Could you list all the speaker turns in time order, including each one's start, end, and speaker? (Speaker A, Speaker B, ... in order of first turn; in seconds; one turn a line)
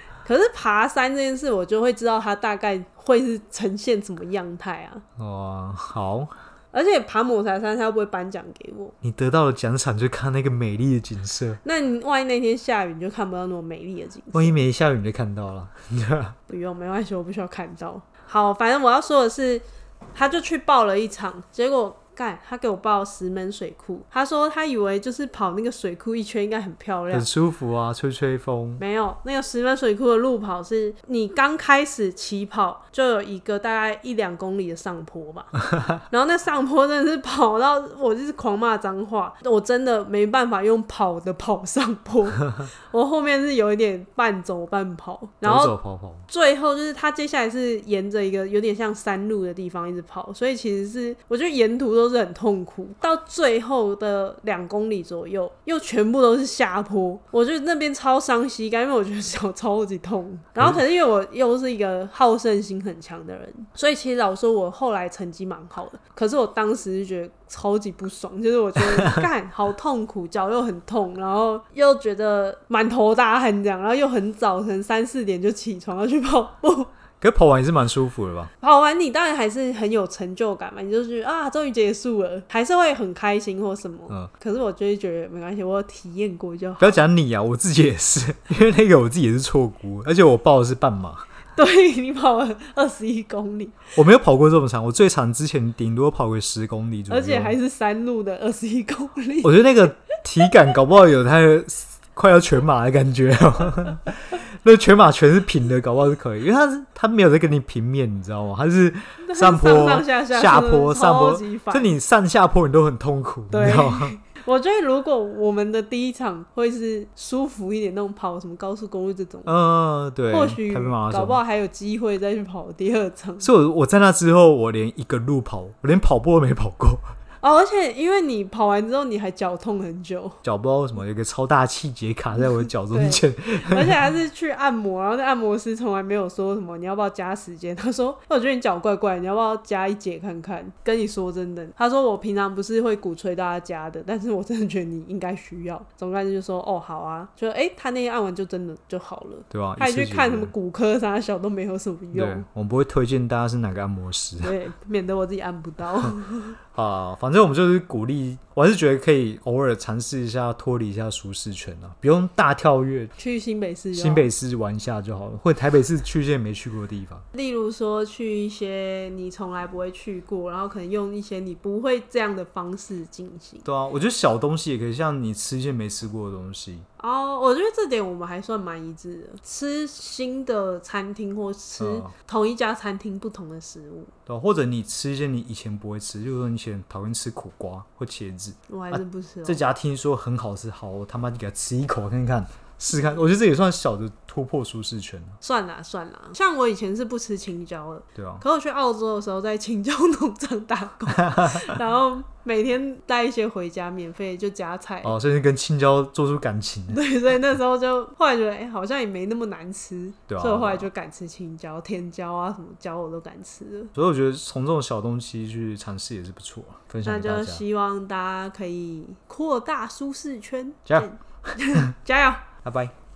Speaker A: 0.2-5.0
Speaker B: 5.2-6.3
Speaker A: 6.7-8.9
Speaker B: 9.0-11.6
Speaker A: 11.6-14.6
Speaker B: 14.3-16.4
Speaker A: 16.5-19.6
Speaker A: 20.1-27.3
Speaker B: 27.1-28.8
Speaker A: 28.8-45.8
Speaker B: 45.4-46.2
Speaker A: 46.3-76.9
Speaker B: 69.0-69.2
Speaker B: 77.2-78.5
Speaker A: 78.6-87.0
Speaker B: 86.8-91.2
Speaker A: 91.5-93.9
Speaker B: 93.9-97.5
Speaker A: 97.1-100.0
Speaker B: 99.4-114.2
Speaker A: 109.2-111.9
Speaker A: 113.5-119.5
Speaker B: 119.4-121.4
Speaker A: 120.3-123.5
Speaker B: 123.4-127.1
Speaker A: 127.4-130.4
Speaker B: 130.4-133.9
Speaker A: 132.9-152.4
Speaker B: 149.5-150.5
Speaker B: 152.1-154.5
Speaker A: 154.4-156.6
Speaker B: 156.7-163.1
Speaker A: 163.2-164.3
Speaker B: 163.9-167.2
Speaker A: 167.3-173.7
Speaker B: 173.6-176.9
Speaker A: 177.0-184.1
Speaker B: 181.8-182.1
Speaker B: 184.3-195.4
Speaker A: 188.7-189.6
Speaker A: 195.4-205.2
Speaker B: 198.2-198.4
Speaker B: 201.3-201.6
Speaker B: 205.0-207.0
Speaker A: 206.9-213.9
Speaker B: 210.3-210.9
Speaker B: 213.9-217.6
Speaker A: 217.0-222.5
Speaker B: 220.9-221.9
Speaker B: 222.6-222.9